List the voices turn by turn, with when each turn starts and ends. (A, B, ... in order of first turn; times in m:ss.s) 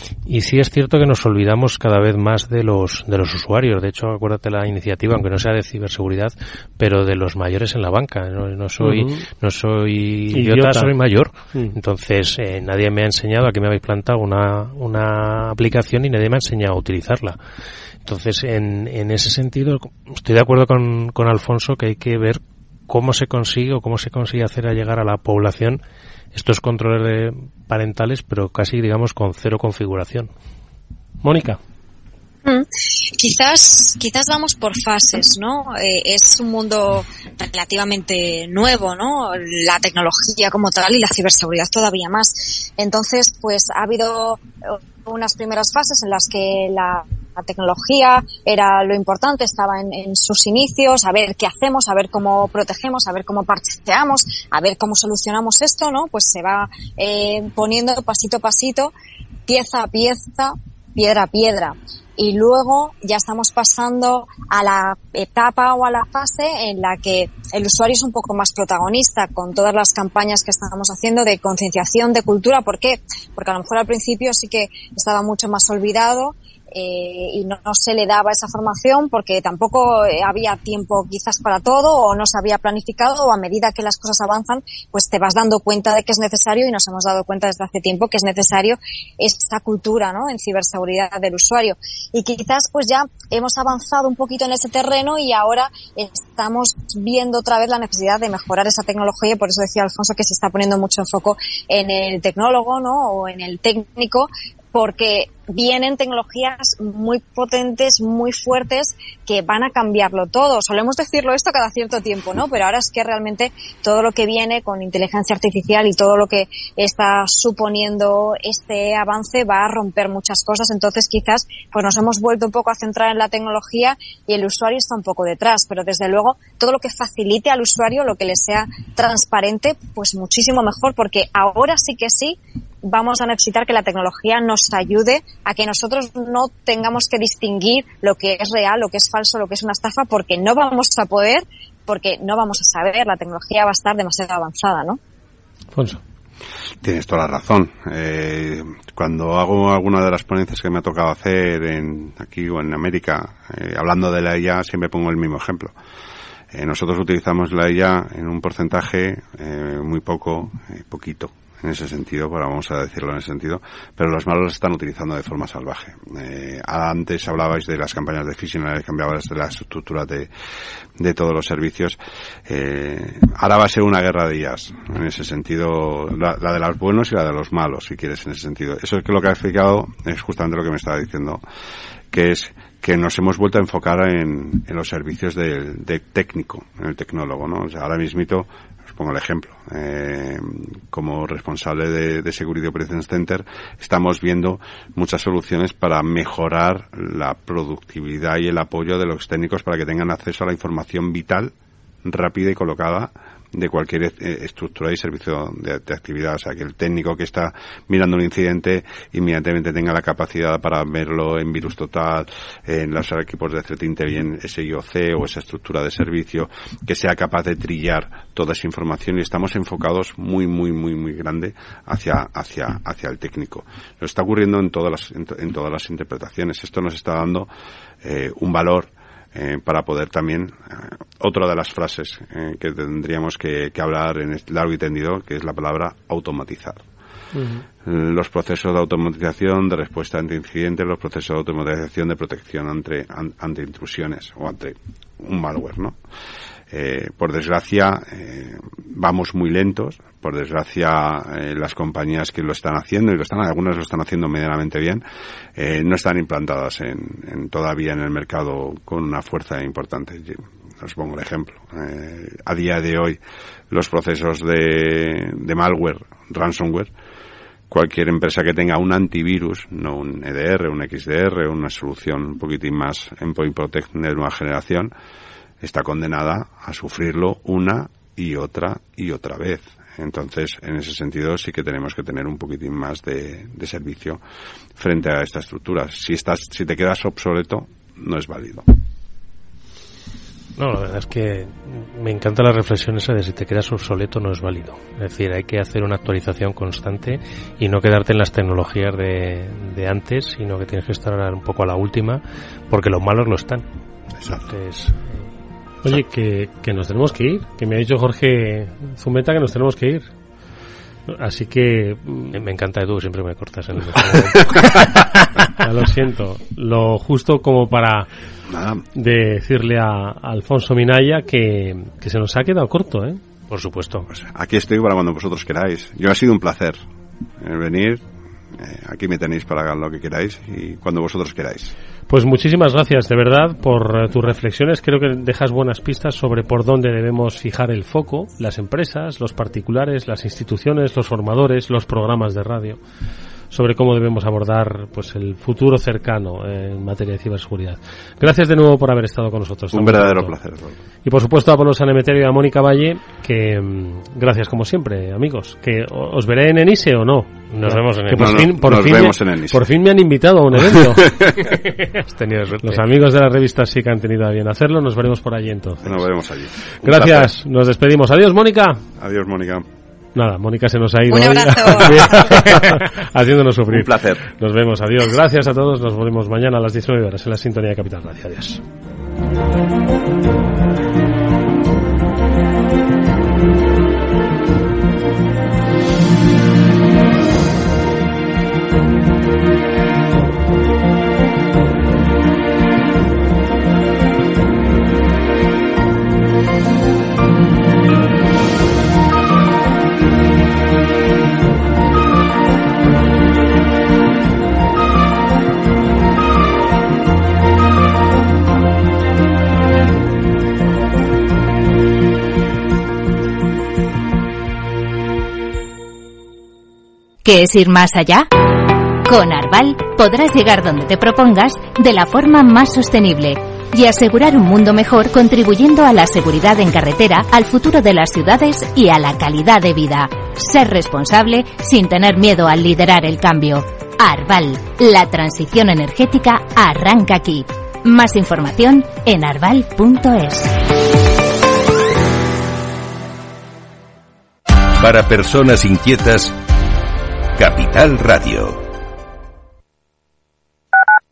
0:00.2-0:17.4 A
0:08.8-0:09.2 B
0:10.3-0:10.9 B
0:18.0-0:25.8 A
0:26.3-0:30.3 A
0:31.2-0:31.6 B
0:32.4-0:58.9 C
0:59.5-2:25.0 C
2:25.7-2:26.0 B
2:26.8-2:35.7 D
2:36.5-2:50.3 D
2:51.0-3:01.4 D
3:02.1-3:21.5 D
3:22.0-3:47.5 D
3:48.0-3:56.8 D
3:57.3-3:57.6 B
3:57.8-4:06.0 D
4:06.7-4:15.0 D
4:15.6-4:26.9 D
4:27.7-4:34.9 D
4:35.6-4:44.2 D
4:44.8-4:48.7 D
4:50.6-5:03.6 A
5:04.3-5:05.3 A
5:05.8-5:10.1 B
5:11.1-5:12.4 B
5:12.3-5:14.5 A
5:15.5-5:18.1 B
5:18.5-5:18.8 D
5:18.9-5:23.2 B
5:23.5-5:24.1 A
5:24.1-5:26.8 D
5:27.4-5:28.0 D
5:28.6-5:31.7 D
5:32.1-5:42.8 B
5:43.5-5:50.3 B
5:49.7-5:50.8 D
5:51.0-6:01.6 B
5:57.5-5:58.3 A
5:58.1-5:59.7 D
6:00.7-6:01.4 D
6:02.0-6:02.8 A
6:02.6-6:06.0 B
6:05.8-6:07.3 D
6:06.8-6:08.8 B
6:09.0-6:09.6 D
6:10.1-6:18.6 B
6:11.1-6:12.6 C
6:12.2-6:12.8 D
6:13.7-6:14.2 D
6:57.2-6:58.3 E
6:59.0-7:20.5 E
7:24.8-7:26.4 F
7:27.4-7:28.6 F